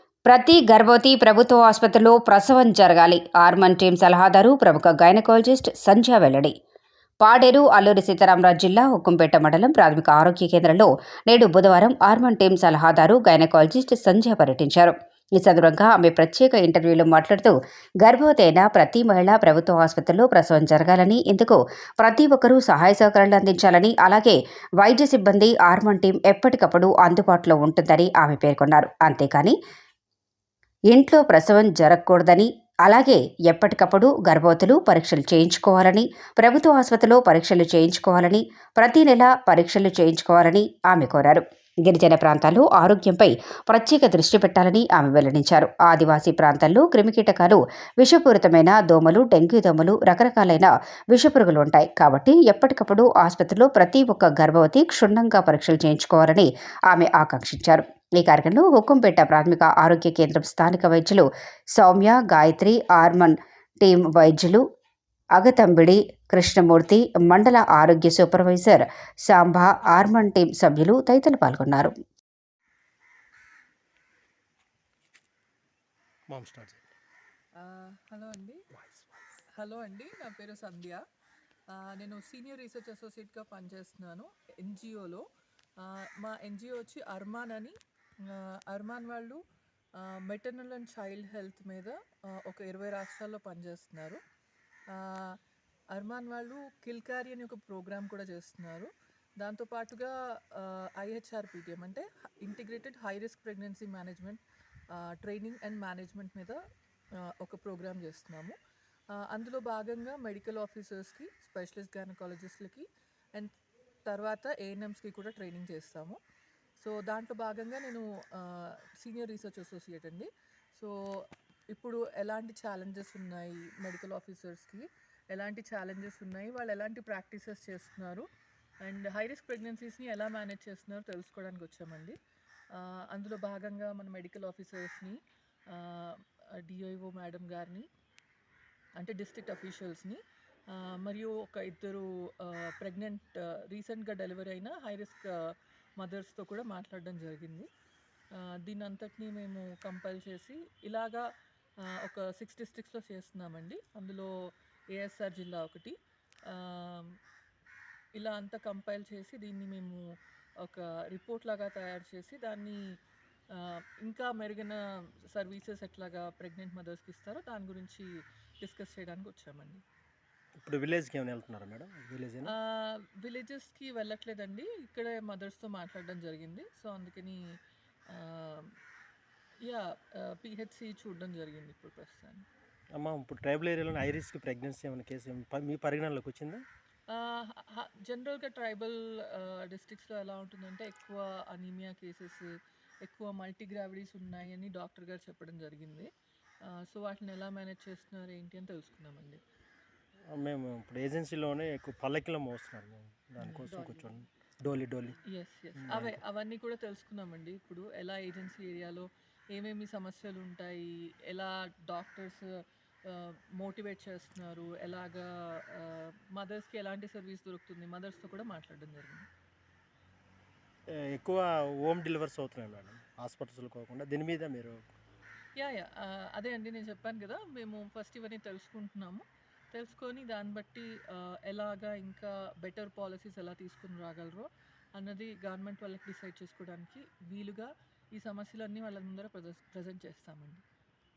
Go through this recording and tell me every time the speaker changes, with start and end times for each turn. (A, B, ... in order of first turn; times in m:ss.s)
0:00.2-0:06.5 A
0:07.2-0:29.6 A
0:30.9-1:04.6 A
1:05.4-1:11.9 A
1:16.3-1:16.9 B
1:17.6-1:18.6 C
1:18.7-1:19.1 B
1:19.6-1:21.0 C
1:21.7-1:25.2 C
1:25.8-1:29.4 C
1:30.0-1:34.2 C
1:34.9-1:35.4 C
1:35.9-1:44.4 C
1:44.9-1:46.6 C
1:47.4-1:48.6 C
1:49.1-1:53.5 C
1:54.1-1:56.2 C
1:56.8-2:00.9 C
2:01.7-2:08.2 C
2:08.8-2:12.2 C
2:12.7-2:15.2 C
2:15.7-2:17.9 C
2:19.0-2:20.2 C
2:20.7-2:25.4 C
2:26.0-2:27.7 C
2:28.4-2:31.2 C
2:32.0-2:34.3 C
2:34.9-2:35.9 C
2:36.5-2:37.2 C
2:38.2-2:40.0 C
2:40.6-2:42.8 C
2:43.5-2:48.1 C
2:48.6-2:49.8 C
2:50.6-2:52.5 B
2:52.4-2:57.4 C
2:58.1-2:58.7 C
2:59.6-3:02.4 C
3:03.0-3:06.6 B
3:07.1-3:12.5 C
3:13.0-3:16.1 C
3:16.7-3:19.4 C
3:20.3-3:25.2 B
3:23.4-3:24.2 C
3:25.3-3:32.4 C
3:25.8-3:26.2 B
3:33.1-3:39.3 C
3:40.9-3:44.9 B
3:45.6-4:00.6 C